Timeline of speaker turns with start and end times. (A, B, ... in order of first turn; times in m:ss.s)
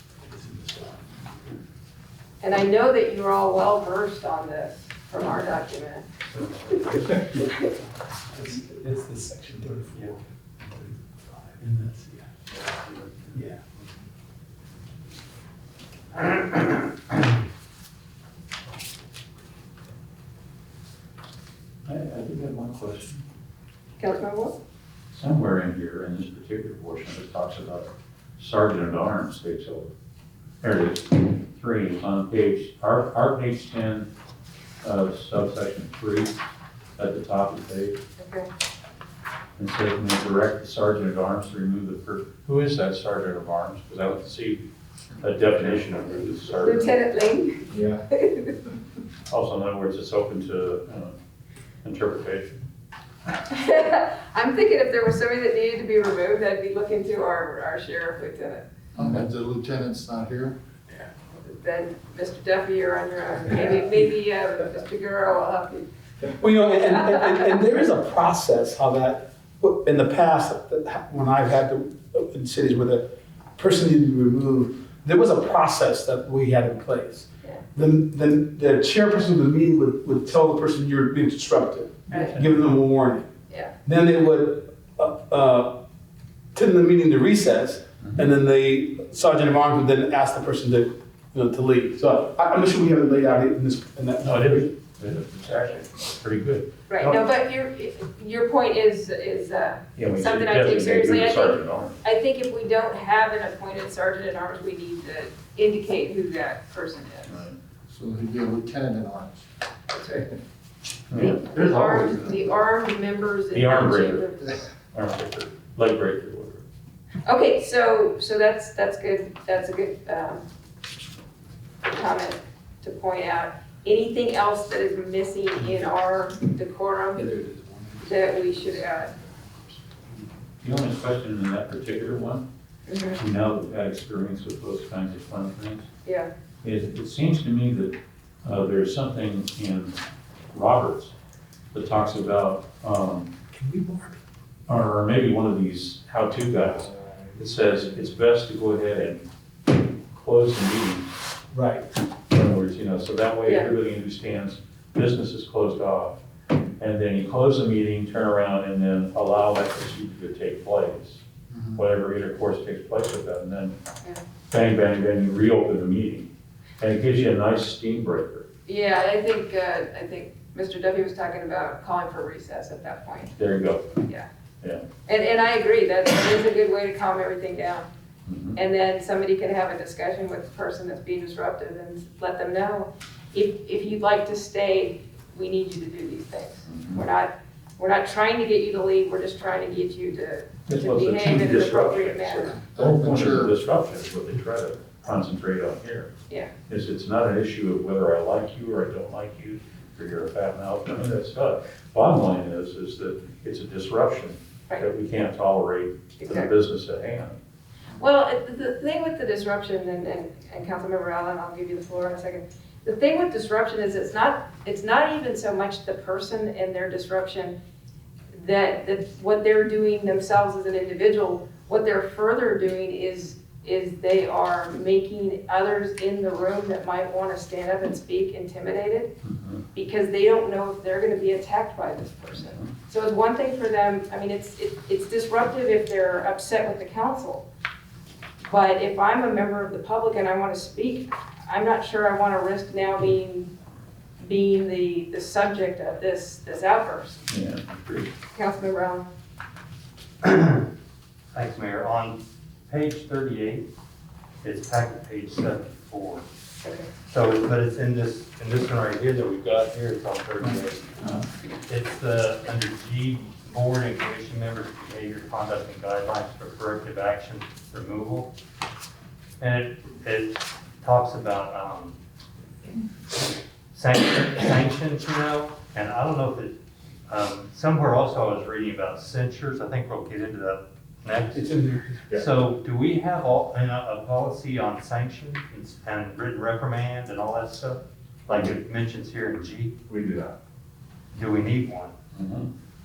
0:00.2-0:01.0 A
0:02.4-0:06.1 B
0:06.2-0:07.2 C
0:07.1-0:07.5 A
0:07.4-0:07.7 B
0:08.3-0:12.3 A
0:12.5-0:13.4 C
0:13.3-0:13.6 A
0:16.1-0:17.1 C
0:21.8-0:23.2 D
0:24.0-0:24.6 B
0:25.1-0:29.9 D
0:30.6-0:34.1 D
0:34.8-0:36.4 D
0:37.0-0:38.0 D
0:38.2-0:38.5 B
0:39.6-0:44.6 D
0:45.2-0:46.9 D
0:46.5-0:48.6 B
0:47.7-0:48.0 E
0:49.3-0:51.1 D
0:51.8-0:52.6 D
0:53.3-0:58.6 B
0:59.0-1:00.6 E
1:01.3-1:05.9 B
1:06.3-1:13.0 A
1:13.6-1:23.3 A
1:22.1-1:22.4 B
1:23.8-1:25.8 A
1:26.5-1:34.7 A
1:34.2-1:37.2 D
1:36.9-1:47.4 B
1:40.0-1:42.0 D
1:47.2-1:47.5 D
1:47.9-1:49.4 E
1:49.9-1:50.3 B
1:51.1-1:52.0 D
1:51.2-1:54.7 B
1:51.8-1:52.1 C
1:53.5-1:54.2 D
1:54.9-1:56.6 D
1:57.2-2:00.4 B
2:01.8-2:07.3 B
2:07.2-2:10.2 A
2:08.0-2:09.1 B
2:10.6-2:12.4 D
2:12.9-2:13.2 B
2:13.1-2:15.9 D
2:16.0-2:16.3 B
2:16.6-2:20.0 D
2:20.5-2:21.1 D
2:21.7-2:23.3 D
2:23.5-2:24.2 A
2:24.7-2:29.2 D
2:30.1-2:31.1 D
2:31.5-2:31.8 A
2:32.3-2:36.2 D
2:33.4-2:33.7 B
2:36.8-2:41.2 D
2:41.5-2:41.8 E
2:41.7-2:43.7 D
2:44.5-2:48.5 D
2:48.6-2:53.4 B
2:53.4-2:54.0 D
2:54.0-2:54.3 B
2:55.0-2:57.9 B
2:58.2-2:58.6 D
2:58.5-3:12.6 B
3:06.7-3:07.0 D
3:10.7-3:16.1 D
3:12.6-3:13.6 E
3:16.7-3:27.4 D
3:26.2-3:26.5 B
3:28.0-3:37.5 B
3:38.3-3:49.1 B
3:49.2-3:49.6 D
3:49.7-3:57.4 B
3:52.4-3:52.7 D
3:58.4-4:03.5 B
4:04.2-4:07.2 B
4:07.3-4:08.1 D
4:08.3-4:09.1 B
4:10.2-4:10.6 C
4:11.3-4:12.2 C
4:12.7-4:13.6 C
4:14.4-4:16.2 C
4:16.6-4:16.9 B
4:17.1-4:20.9 C
4:21.7-4:28.3 C
4:29.4-4:32.0 C
4:33.7-4:36.5 C
4:37.1-4:41.4 C
4:41.3-4:42.2 A
4:42.1-4:49.8 C
4:49.9-4:50.3 E
4:51.1-4:51.9 C
4:52.1-4:52.5 D